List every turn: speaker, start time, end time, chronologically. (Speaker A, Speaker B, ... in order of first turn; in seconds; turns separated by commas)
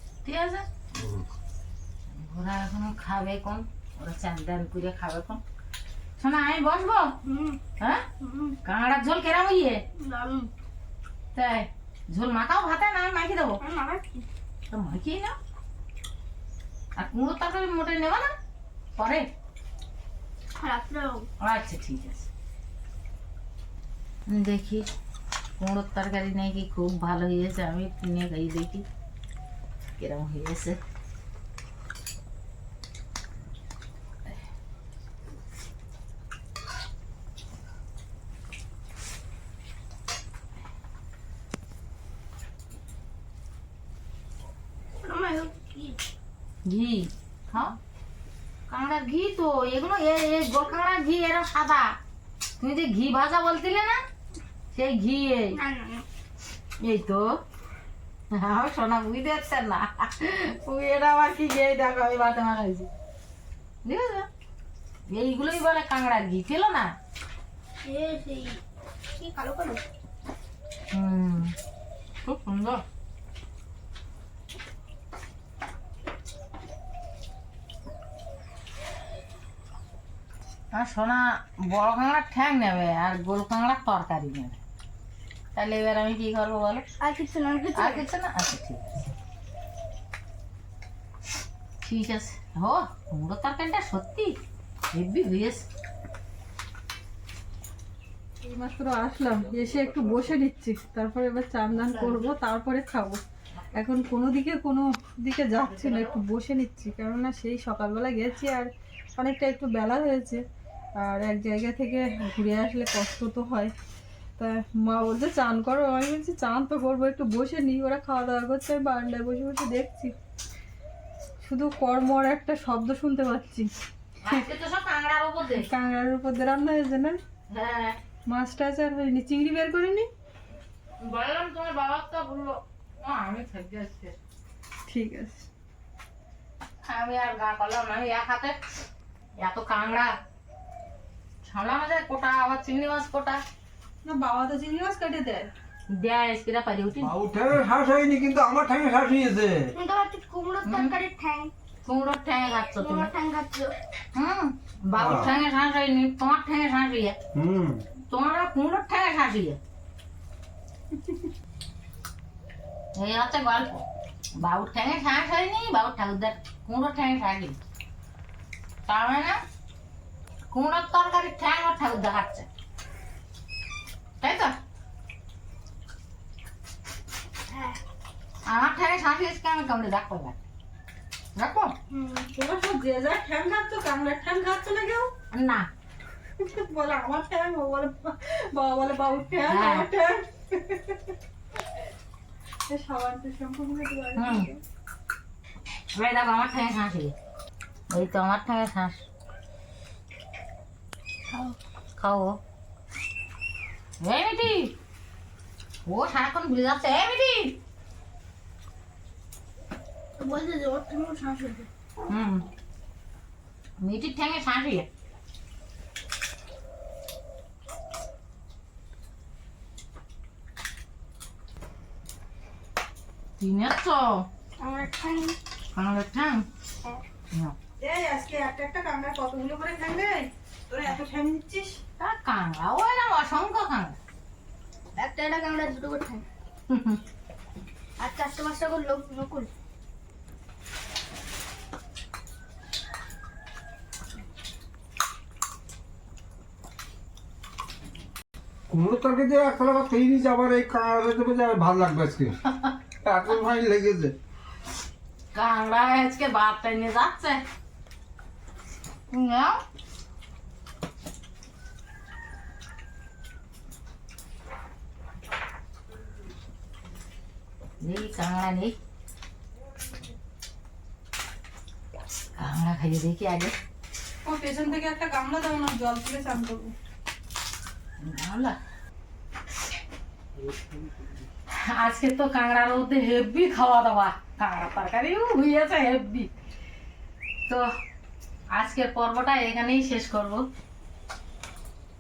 Speaker A: 0.2-0.7, Speaker B: 0.9-1.2, Speaker A: 2.1-5.4, Speaker A: 6.2-7.2, Speaker C: 7.2-7.6, Speaker A: 7.8-8.0, Speaker C: 8.2-8.6, Speaker A: 8.6-9.8, Speaker C: 10.0-10.5, Speaker A: 11.3-13.6, Speaker C: 13.6-14.3, Speaker A: 14.7-15.3, Speaker A: 17.0-18.3, Speaker A: 19.0-19.2, Speaker C: 20.6-21.3, Speaker A: 21.4-22.3, Speaker A: 24.3-24.9, Speaker A: 25.6-28.9, Speaker A: 30.0-30.8, Speaker C: 45.0-46.0, Speaker A: 46.7-47.8, Speaker A: 48.7-51.9, Speaker A: 52.6-54.0, Speaker A: 54.7-55.6, Speaker C: 55.5-56.1, Speaker A: 56.8-57.3, Speaker A: 58.4-62.9, Speaker A: 63.8-64.3, Speaker A: 65.1-66.9, Speaker C: 67.8-68.6, Speaker C: 69.2-69.9, Speaker A: 70.9-71.5, Speaker A: 72.2-72.8, Speaker A: 80.7-84.6, Speaker A: 85.5-86.8, Speaker C: 87.0-88.1, Speaker A: 87.8-89.1, Speaker A: 91.8-94.3, Speaker A: 94.9-95.7, Speaker D: 98.4-103.2, Speaker B: 99.6-100.3, Speaker A: 101.7-102.3, Speaker A: 103.5-103.8, Speaker D: 103.8-110.4, Speaker A: 105.5-106.2, Speaker D: 111.0-113.7, Speaker D: 114.4-120.1, Speaker D: 121.4-123.7, Speaker A: 124.2-125.7, Speaker D: 125.6-127.2, Speaker A: 127.5-128.0, Speaker D: 128.3-130.1, Speaker A: 131.0-134.2, Speaker D: 134.9-135.5, Speaker A: 136.9-138.6, Speaker A: 139.4-140.2, Speaker A: 141.4-143.4, Speaker D: 144.1-145.5, Speaker A: 145.9-147.1, Speaker B: 147.0-149.7, Speaker C: 149.7-151.5, Speaker A: 150.7-150.9, Speaker A: 151.9-153.1, Speaker C: 152.8-153.8, Speaker A: 154.1-157.2, Speaker B: 154.9-155.3, Speaker B: 157.3-157.8, Speaker A: 158.1-159.6, Speaker A: 163.0-163.8, Speaker A: 164.4-167.6, Speaker A: 168.9-169.4, Speaker A: 170.5-172.5, Speaker A: 174.2-174.6, Speaker C: 177.5-177.8, Speaker A: 178.4-180.4, Speaker A: 181.4-181.7, Speaker C: 181.9-182.3, Speaker D: 182.3-185.1, Speaker A: 185.3-185.7, Speaker D: 186.4-191.2, Speaker A: 189.4-189.9, Speaker D: 192.7-194.6, Speaker A: 194.2-194.5, Speaker A: 195.9-197.1, Speaker A: 197.9-199.0, Speaker C: 201.3-201.6, Speaker A: 202.0-202.4, Speaker A: 204.0-204.8, Speaker A: 205.9-207.6, Speaker C: 210.2-211.7, Speaker A: 212.1-212.4, Speaker A: 213.8-214.9, Speaker A: 223.4-224.2, Speaker C: 224.6-225.4, Speaker A: 225.7-226.5, Speaker D: 227.8-231.8, Speaker A: 232.0-234.0, Speaker C: 235.0-236.2, Speaker A: 236.7-237.0, Speaker C: 238.0-239.5, Speaker B: 248.7-252.4, Speaker B: 253.0-254.2, Speaker A: 255.3-257.4, Speaker A: 259.1-259.6, Speaker A: 267.8-268.8, Speaker A: 272.4-273.6, Speaker D: 274.2-276.7, Speaker A: 278.0-278.6, Speaker A: 281.5-286.3, Speaker A: 288.5-290.4